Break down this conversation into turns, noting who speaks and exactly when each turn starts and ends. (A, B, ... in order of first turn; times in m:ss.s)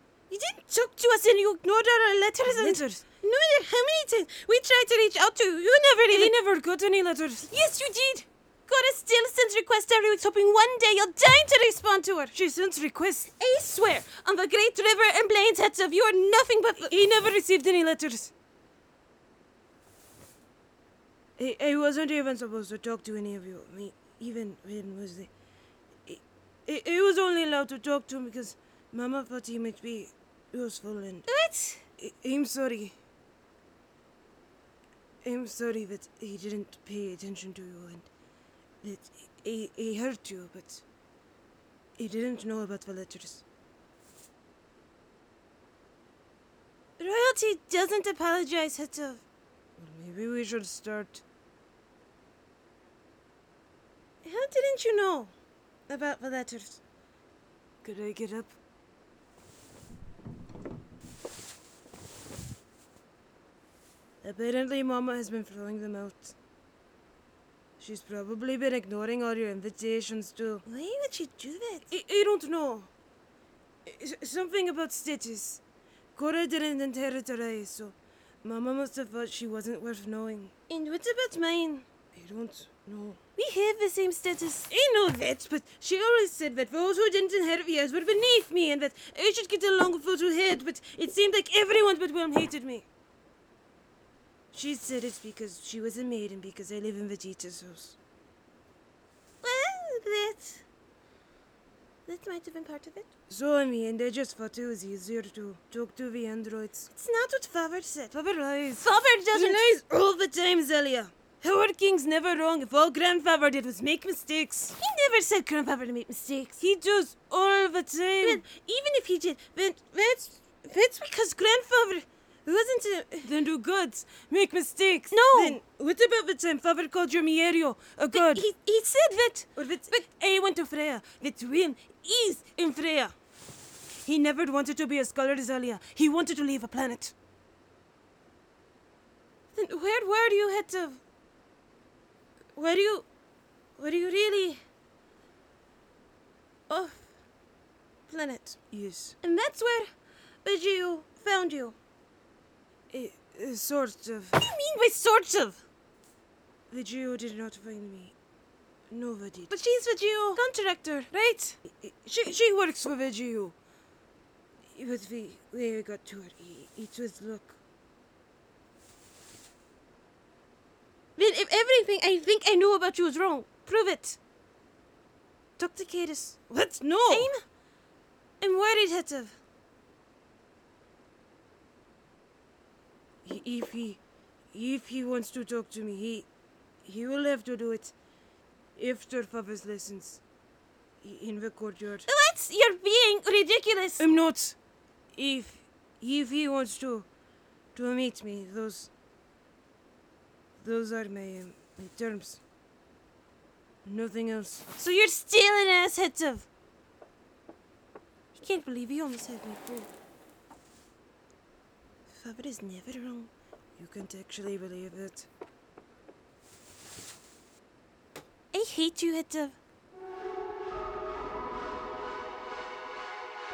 0:00.3-0:06.3 A
0:02.4-0:03.0 B
0:06.1-0:07.5 B
0:07.4-0:12.3 A
0:12.3-0:13.3 B
0:13.3-0:16.9 A
0:16.8-0:18.3 B
0:21.4-0:25.3 B
0:26.1-0:31.3 B
0:31.3-0:31.8 A
0:32.0-0:32.9 B
0:35.2-0:38.1 B
0:38.8-0:40.8 B
0:42.0-0:43.4 B
0:47.0-0:49.2 A
0:49.8-0:51.2 B
0:54.2-0:55.3 A
0:55.9-0:56.6 A
0:57.8-0:58.5 B
1:04.2-1:06.3 B
1:07.8-1:10.6 B
1:10.6-1:11.9 A
1:11.9-1:12.9 B
1:13.8-1:15.6 B
1:16.1-1:20.7 B
1:20.7-1:21.8 A
1:22.0-1:23.2 B
1:23.4-1:24.7 A
1:24.7-1:32.9 B
1:34.5-1:38.0 B
1:39.4-1:40.6 A
1:42.1-1:43.1 A
1:43.3-1:46.9 B
1:46.9-1:48.1 A
1:48.1-1:54.8 B
1:48.8-1:49.6 A
1:54.8-1:56.1 A
1:56.1-1:58.4 B
1:58.2-2:03.3 A
2:03.2-2:08.5 B
2:05.1-2:05.6 A
2:08.1-2:10.0 A
2:09.6-2:13.1 B
2:14.0-2:17.1 B
2:19.5-2:21.0 A
2:22.6-2:23.0 A
2:23.8-2:24.6 A
2:26.7-2:27.0 A
2:28.1-2:28.6 A
2:28.6-2:29.2 B
2:29.2-2:29.9 A
2:30.4-2:31.8 A
2:32.9-2:34.4 B
2:34.4-2:35.6 A
2:36.7-2:38.1 B
2:38.9-2:39.5 B
2:39.5-2:41.6 A
2:41.6-2:43.5 B
2:44.7-2:47.6 B
2:51.2-2:54.2 A
2:55.6-2:56.5 A
2:56.5-2:57.3 B
2:57.1-2:57.3 A
2:58.4-2:59.4 A
3:03.2-3:04.0 B
3:04.5-3:06.3 B
3:06.8-3:07.9 B
3:08.8-3:10.2 B
3:11.0-3:12.1 B
3:12.1-3:14.0 A
3:14.0-3:14.6 B
3:15.1-3:17.1 B
3:17.7-3:18.9 B
3:20.6-3:22.4 B
3:23.8-3:24.7 B
3:24.8-3:26.5 A
3:28.3-3:29.9 A
3:32.2-3:33.3 A
3:33.8-3:35.3 B
3:38.5-3:39.6 A